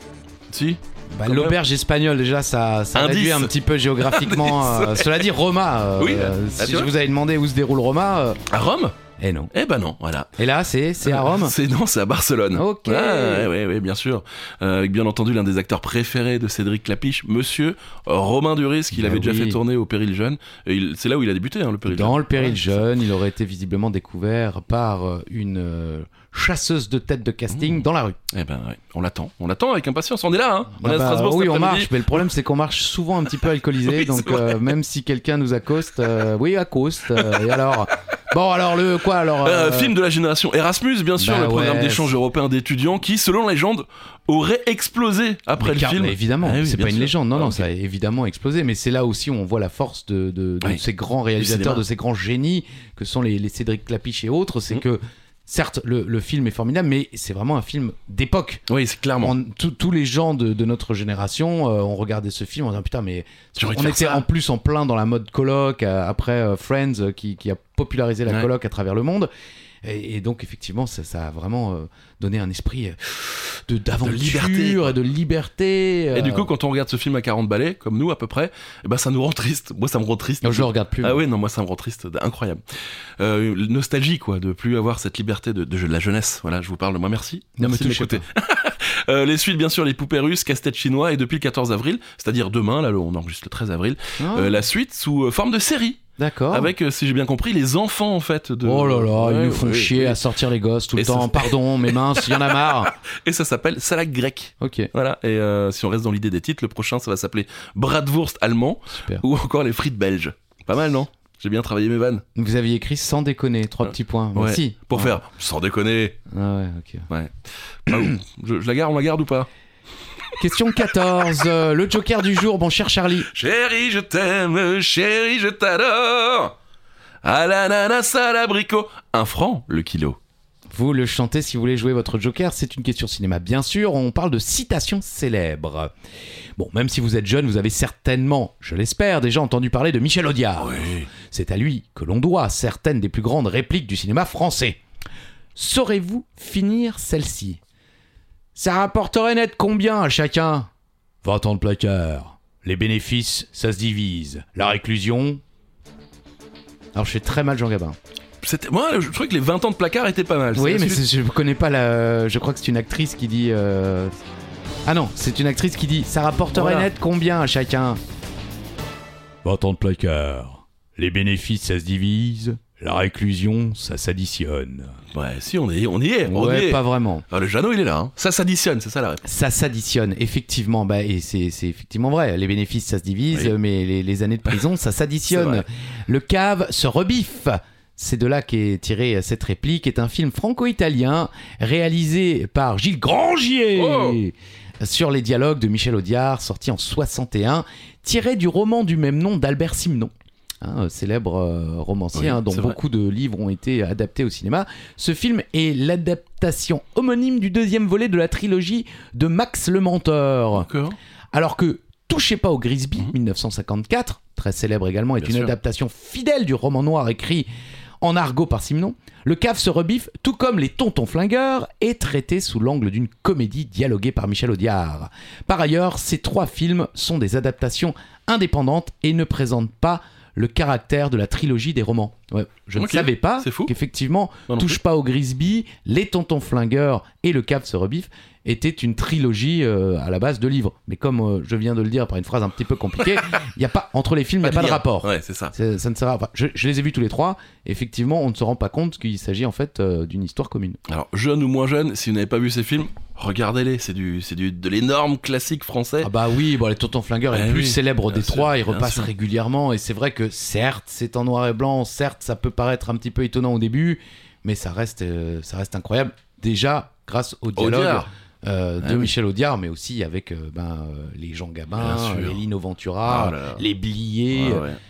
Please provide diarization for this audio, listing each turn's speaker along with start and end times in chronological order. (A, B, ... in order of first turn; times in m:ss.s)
0:00.5-0:01.6 A
0:01.1-0:08.4 B
0:02.9-0:05.2 A
0:06.0-0:06.9 A
0:08.5-0:09.0 A
0:09.2-0:09.5 B
0:09.5-0:10.3 A
0:10.4-0:11.5 B
0:11.0-0:22.8 A
0:12.5-0:13.5 B
0:18.9-0:19.6 B
0:21.9-0:28.2 B
0:27.5-0:32.2 A
0:30.8-0:39.9 B
0:33.8-0:34.7 A
0:37.2-0:37.6 A
0:39.4-0:47.6 A
0:41.2-0:42.1 B
0:45.6-0:58.6 B
0:51.4-0:51.8 A
0:58.7-0:59.3 A
0:59.2-1:09.3 B
1:03.5-1:04.2 A
1:09.8-1:16.5 B
1:14.0-1:14.9 A
1:16.1-1:40.2 A
1:20.4-1:21.2 B
1:27.6-1:28.2 B
1:34.2-1:34.6 B
1:36.2-1:36.7 B
1:38.6-1:42.9 B
1:41.0-1:52.2 A
1:44.6-1:44.9 B
1:52.3-1:55.2 B
1:54.3-1:56.2 A
1:56.3-1:57.1 B
1:57.1-1:59.5 A
2:00.4-2:03.3 B
2:03.3-2:06.5 A
2:07.2-2:10.2 A
2:10.7-2:15.9 B
2:16.6-2:24.8 B
2:20.6-2:21.1 A
2:25.6-2:27.6 B
2:28.5-2:30.7 B
2:31.2-2:35.4 B
2:36.9-2:38.0 B
2:38.4-2:41.0 A
2:40.5-2:44.1 B
2:44.8-2:48.0 B
2:46.5-2:46.9 A
2:49.4-2:55.0 B
2:55.1-2:59.2 A
2:56.3-2:57.2 B
2:59.2-3:30.7 B
3:05.3-3:05.6 A
3:13.7-3:14.2 A
3:22.1-3:22.8 A
3:30.6-3:31.0 A
3:31.3-3:37.5 B
3:35.2-3:35.5 A
3:38.0-4:10.8 B
3:52.8-3:53.7 A
3:54.5-3:54.8 A
4:04.4-4:05.5 A
4:10.9-4:16.1 A
4:16.0-4:34.6 B
4:17.3-4:19.1 A
4:27.6-4:28.1 A
4:28.8-4:29.1 A
4:31.8-4:32.4 A
4:33.0-4:33.6 A
4:34.3-4:34.8 A